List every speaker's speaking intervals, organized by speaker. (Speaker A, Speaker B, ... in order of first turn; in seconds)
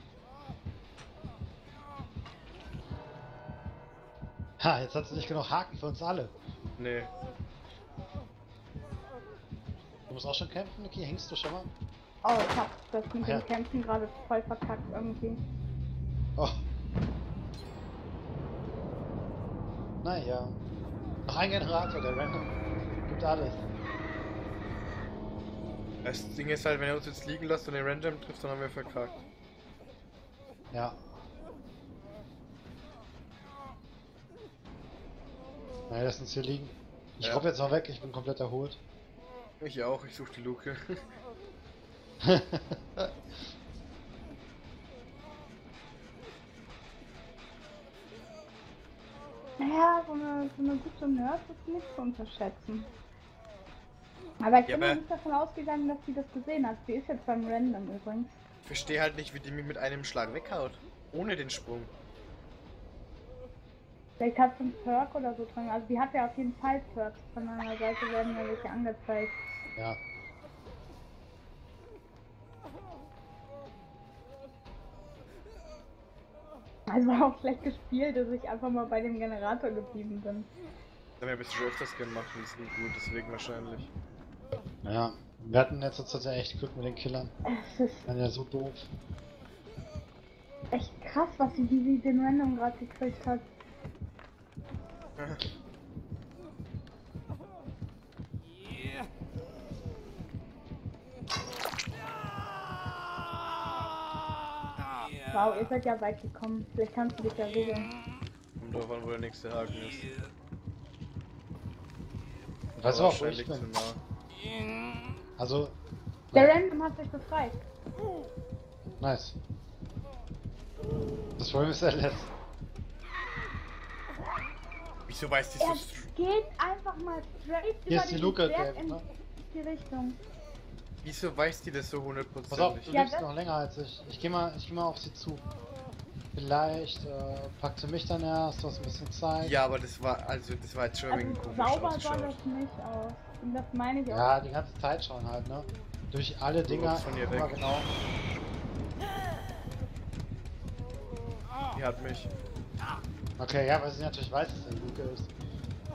Speaker A: 4.6-6.3, 10.1-11.7, 13.2-13.5, 16.4-16.6, 20.0-20.6, 21.3-22.5, 23.1-23.6, 30.7-31.0, 35.9-38.8, 42.2-43.1, 84.8-87.3, 88.1-88.9, 112.8-113.7, 115.4-115.8, 116.3-116.6, 119.0-119.4, 121.4-122.3, 127.9-129.1, 132.5-135.4, 136.3-139.6, 144.1-147.9, 153.4-155.3
Speaker B: 6.8-7.1, 26.0-29.2, 39.6-40.8, 54.6-55.0, 58.6-61.9, 81.2-83.9, 95.2-95.4, 108.6-110.1, 112.8-114.0, 125.1-126.1, 131.0-133.0, 139.4-142.4, 146.7-147.6, 151.7-152.3
Speaker C: 12.2-15.4, 49.6-52.9, 54.4-58.4, 64.2-69.4, 76.9-80.5, 87.5-88.1, 90.7-93.5, 105.3-107.9, 116.3-117.6, 125.6-130.2, 132.9-133.3, 141.1-144.4